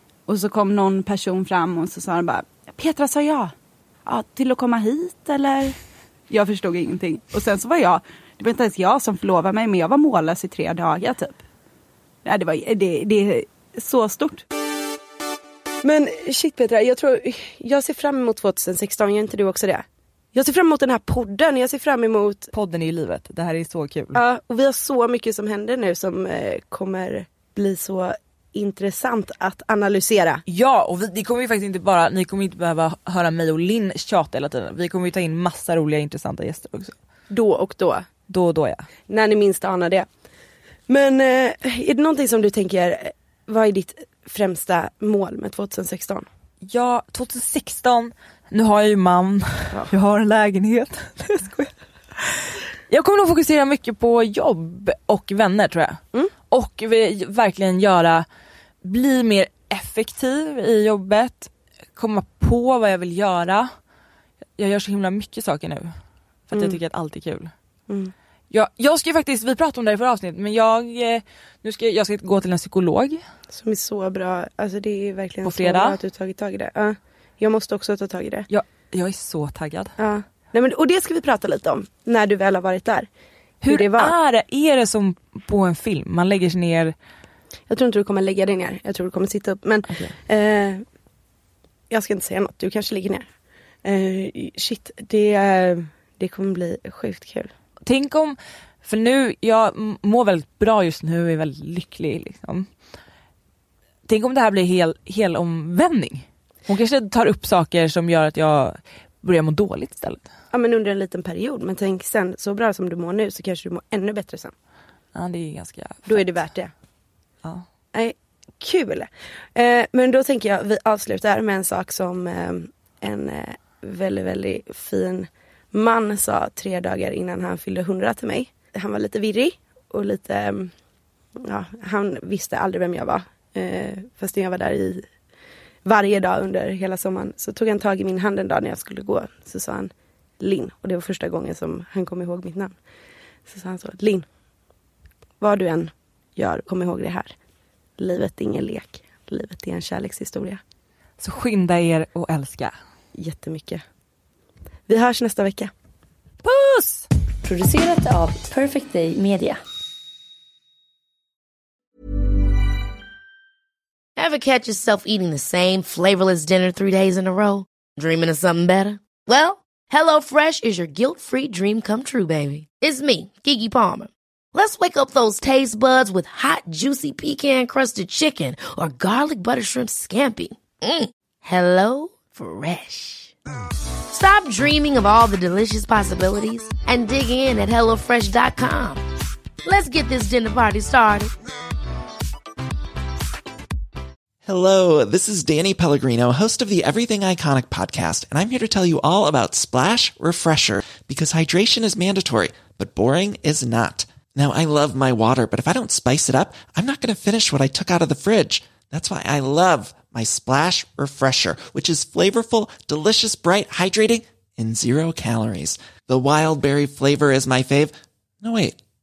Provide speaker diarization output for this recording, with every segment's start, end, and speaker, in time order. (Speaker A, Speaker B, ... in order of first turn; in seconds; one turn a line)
Speaker A: 0.3-3.5
Speaker A: 4.0-5.8
Speaker A: 6.3-11.4
Speaker A: 12.2-14.4
Speaker B: 15.8-22.5
Speaker C: 22.5-24.2
Speaker B: 24.1-30.4
Speaker C: 30.5-36.9
Speaker B: 37.3-38.0
Speaker C: 38.3-38.9
Speaker B: 39.1-40.1
Speaker B: 40.9-46.2
Speaker C: 46.6-58.2
Speaker C: 58.8-63.7
Speaker C: 64.6-65.9
Speaker C: 66.5-67.5
Speaker C: 68.5-73.2
Speaker B: 73.5-78.5
Speaker C: 75.4-76.0
Speaker C: 78.5-79.9
Speaker B: 80.0-83.1
Speaker C: 83.6-86.9
Speaker B: 83.7-84.1
Speaker B: 87.7-90.8
Speaker B: 91.9-93.2
Speaker B: 93.8-97.5
Speaker C: 97.8-102.7
Speaker C: 104.1-110.3
Speaker B: 110.5-114.5
Speaker C: 115.1-116.4
Speaker B: 116.1-116.7
Speaker B: 117.9-130.7
Speaker B: 131.4-135.1
Speaker B: 135.8-142.7
Speaker B: 143.5-144.2
Speaker B: 145.4-147.3
Speaker B: 148.0-150.6
Speaker C: 151.2-152.7
Speaker B: 153.2-153.8
Speaker B: 154.9-155.7
Speaker C: 156.4-157.1
Speaker D: 157.4-159.6
Speaker E: 164.2-183.3
Speaker E: 184.1-189.0
Speaker E: 189.6-191.3
Speaker F: 194.4-218.8